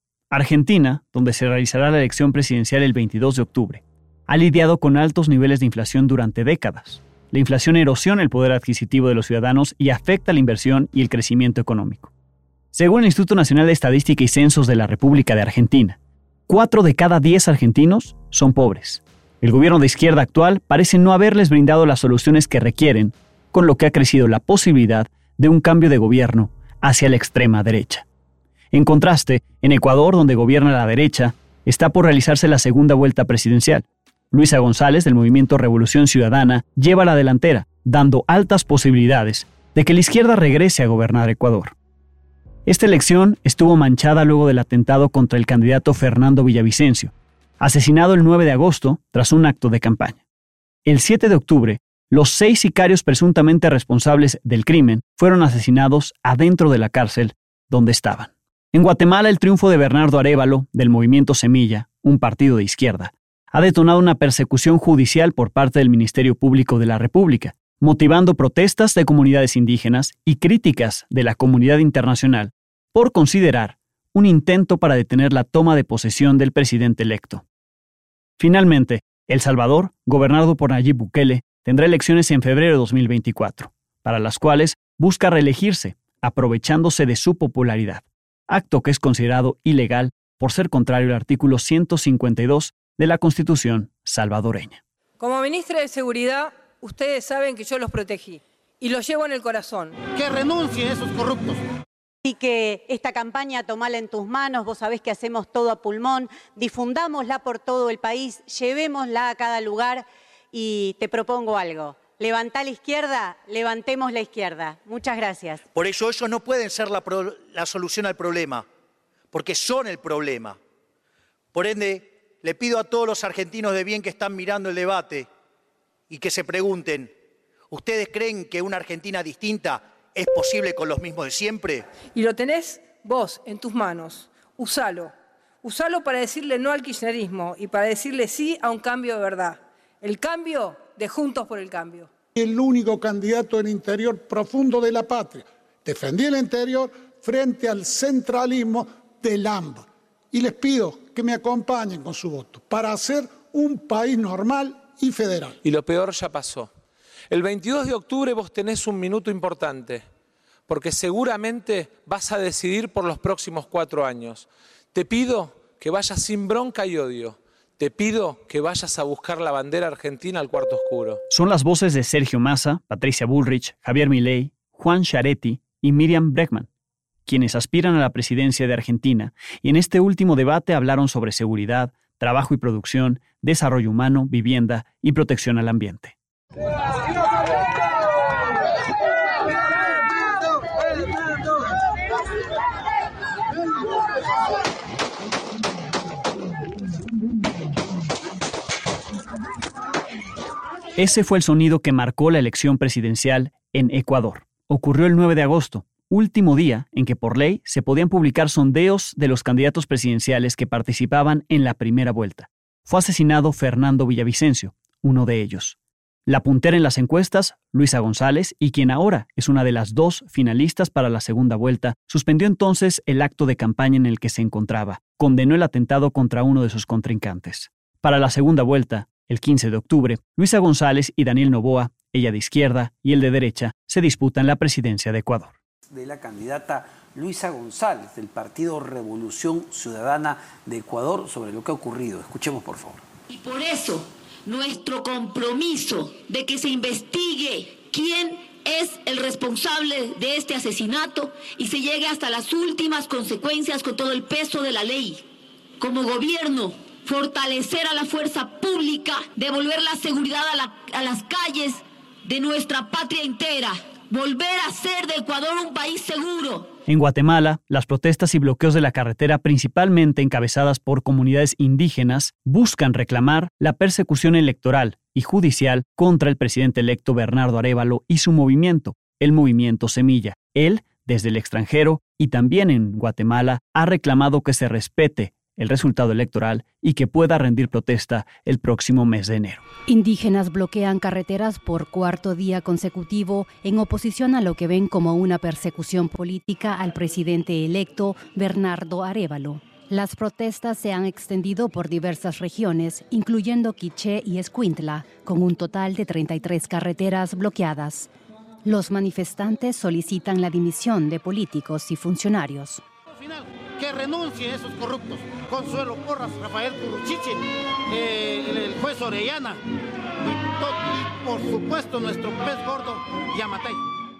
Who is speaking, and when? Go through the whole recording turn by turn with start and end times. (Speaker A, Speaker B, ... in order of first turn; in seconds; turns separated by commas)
Speaker A: 0.3-12.1, Speaker A: 12.7-16.0, Speaker A: 16.5-28.0, Speaker A: 28.7-41.7, Speaker A: 42.7-50.2, Speaker A: 50.8-77.4, Speaker A: 78.4-94.8, Speaker B: 95.2-100.0, Speaker C: 100.1-101.6, Speaker D: 102.2-115.6, Speaker E: 115.7-118.6, Speaker E: 119.3-120.6, Speaker E: 121.5-125.3, Speaker E: 126.1-127.1, Speaker E: 127.7-131.9, Speaker B: 132.1-142.1, Speaker F: 142.3-155.6, Speaker G: 155.6-156.7, Speaker G: 157.3-160.0, Speaker G: 160.7-171.2, Speaker A: 171.3-176.7, Speaker A: 177.2-186.1, Speaker A: 201.0-235.6, Speaker H: 235.9-243.0, Speaker I: 243.3-255.2, Speaker I: 255.8-266.7, Speaker A: 266.9-289.6, Speaker J: 289.9-308.1, Speaker J: 308.6-312.8, Speaker C: 313.1-319.6, Speaker C: 320.2-323.8